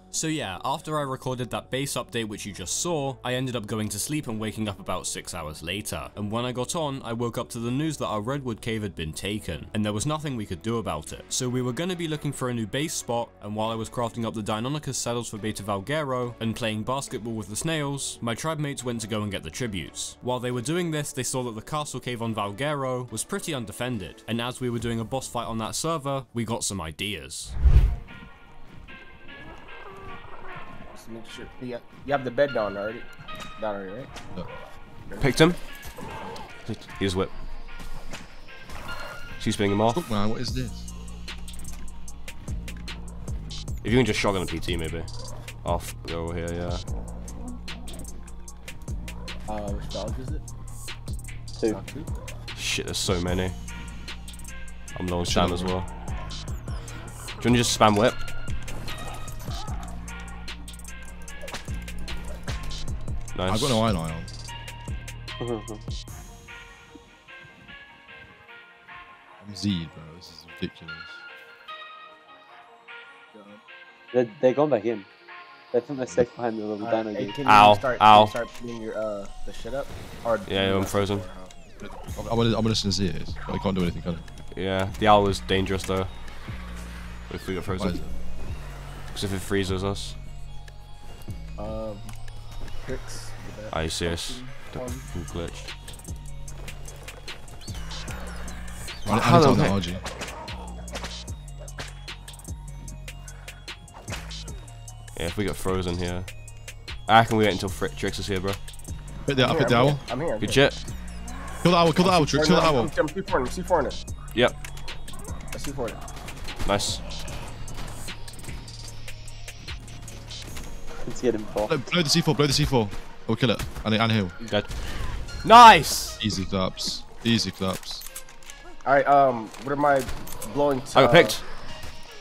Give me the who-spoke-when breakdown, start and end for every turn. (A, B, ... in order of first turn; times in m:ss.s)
0:00.1-0:27.6 A
0:30.9-0:34.1 B
0:35.1-0:35.4 B
0:35.2-0:35.6 C
0:36.6-0:37.3 C
0:39.4-0:40.0 C
0:39.9-0:40.9 D
0:43.8-0:45.1 C
0:45.6-0:46.8 C
0:49.5-0:50.4 B
0:51.7-0:52.2 B
0:52.6-0:53.5 C
0:54.9-0:55.9 C
0:55.2-0:55.7 D
0:57.4-0:58.2 C
1:03.3-1:03.8 C
1:03.5-1:04.3 D
1:05.4-1:05.8 E
1:09.4-1:11.2 D
1:13.3-1:13.6 B
1:14.1-1:15.1 E
1:15.7-1:17.4 E
1:16.8-1:21.6 B
1:17.4-1:18.3 C
1:20.4-1:21.2 C
1:22.2-1:24.2 D
1:24.5-1:26.1 C
1:27.3-1:28.1 C
1:27.8-1:28.1 D
1:29.1-1:30.2 C
1:31.6-1:32.1 B
1:32.8-1:35.1 B
1:33.7-1:35.7 C
1:39.0-1:39.8 C
1:39.0-1:40.0 D
1:45.1-1:46.3 C
1:47.1-1:48.6 C
1:49.2-1:50.0 D
1:49.4-1:50.6 B
1:50.4-1:50.8 C
1:51.6-1:52.9 D
1:52.0-1:54.0 B
1:55.5-1:56.0 B
1:56.6-1:57.0 C
2:01.0-2:01.8 E
2:01.7-2:04.3 D
2:04.4-2:04.7 C
2:05.4-2:06.2 C
2:06.2-2:08.0 D
2:08.8-2:11.4 B
2:10.9-2:11.4 C